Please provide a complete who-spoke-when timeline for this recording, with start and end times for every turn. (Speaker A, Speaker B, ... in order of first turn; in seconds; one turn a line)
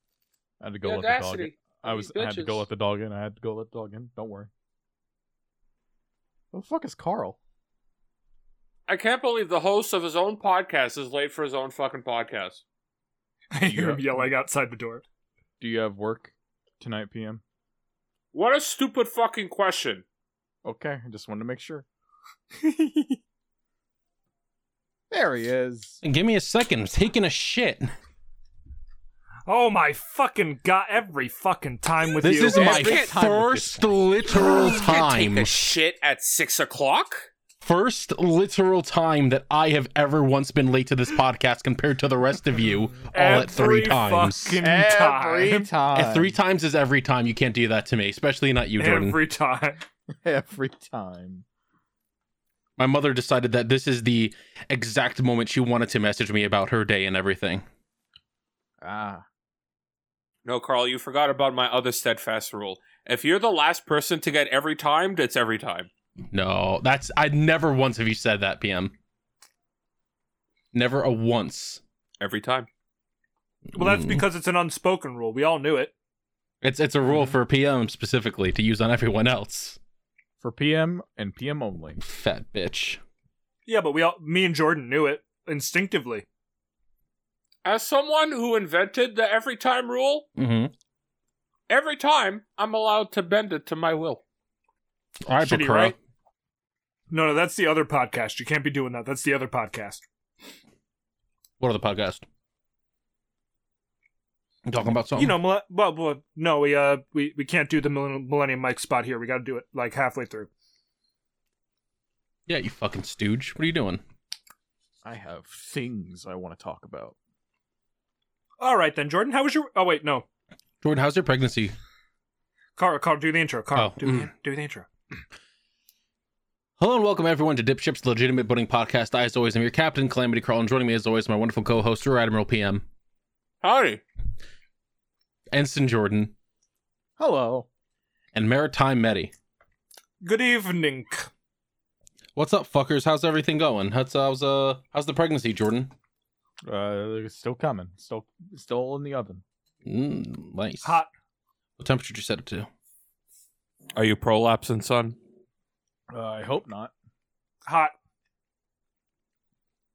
Speaker A: 0.6-4.5
Speaker B: 0.8-2.6
Speaker A: 6.5-7.4
Speaker B: 8.9-12.6
Speaker C: 13.5-15.0
Speaker A: 13.7-14.2
Speaker A: 15.6-17.4
Speaker B: 18.3-20.0
Speaker A: 20.6-21.9
Speaker C: 22.6-23.1
Speaker A: 25.1-26.0
Speaker D: 26.0-27.9
Speaker C: 29.5-32.8
Speaker D: 32.2-35.7
Speaker A: 32.4-33.9
Speaker B: 32.5-33.1
Speaker B: 34.8-37.3
Speaker D: 37.6-44.6
Speaker C: 43.1-45.7
Speaker A: 44.6-46.3
Speaker D: 45.9-49.2
Speaker C: 48.8-49.8
Speaker A: 50.2-51.4
Speaker D: 52.8-57.6
Speaker A: 58.8-59.2
Speaker B: 60.4-65.9
Speaker D: 66.3-68.9
Speaker D: 70.7-71.8
Speaker B: 72.2-72.7
Speaker D: 73.7-74.2
Speaker C: 73.7-75.9
Speaker D: 76.6-79.8
Speaker A: 77.0-77.4
Speaker A: 80.4-82.0
Speaker D: 82.0-83.0
Speaker C: 83.7-86.2
Speaker B: 87.6-90.2
Speaker D: 90.4-90.7
Speaker B: 91.7-94.2
Speaker D: 95.2-96.0
Speaker C: 95.4-95.9
Speaker C: 97.1-100.0
Speaker D: 101.6-102.2
Speaker D: 104.7-105.4
Speaker C: 105.2-110.5
Speaker D: 112.5-114.0
Speaker A: 115.0-117.2
Speaker C: 118.6-120.2
Speaker D: 120.8-121.7
Speaker C: 122.8-124.9
Speaker D: 123.7-124.3
Speaker D: 126.8-132.8
Speaker B: 133.6-134.0
Speaker D: 135.5-136.3
Speaker A: 137.2-137.7
Speaker D: 138.3-139.3
Speaker C: 140.2-141.3
Speaker D: 142.3-145.9
Speaker A: 146.7-149.4
Speaker D: 149.8-151.0
Speaker C: 150.8-151.1
Speaker D: 151.8-152.7
Speaker B: 153.9-155.2
Speaker A: 156.1-156.9
Speaker C: 157.7-157.9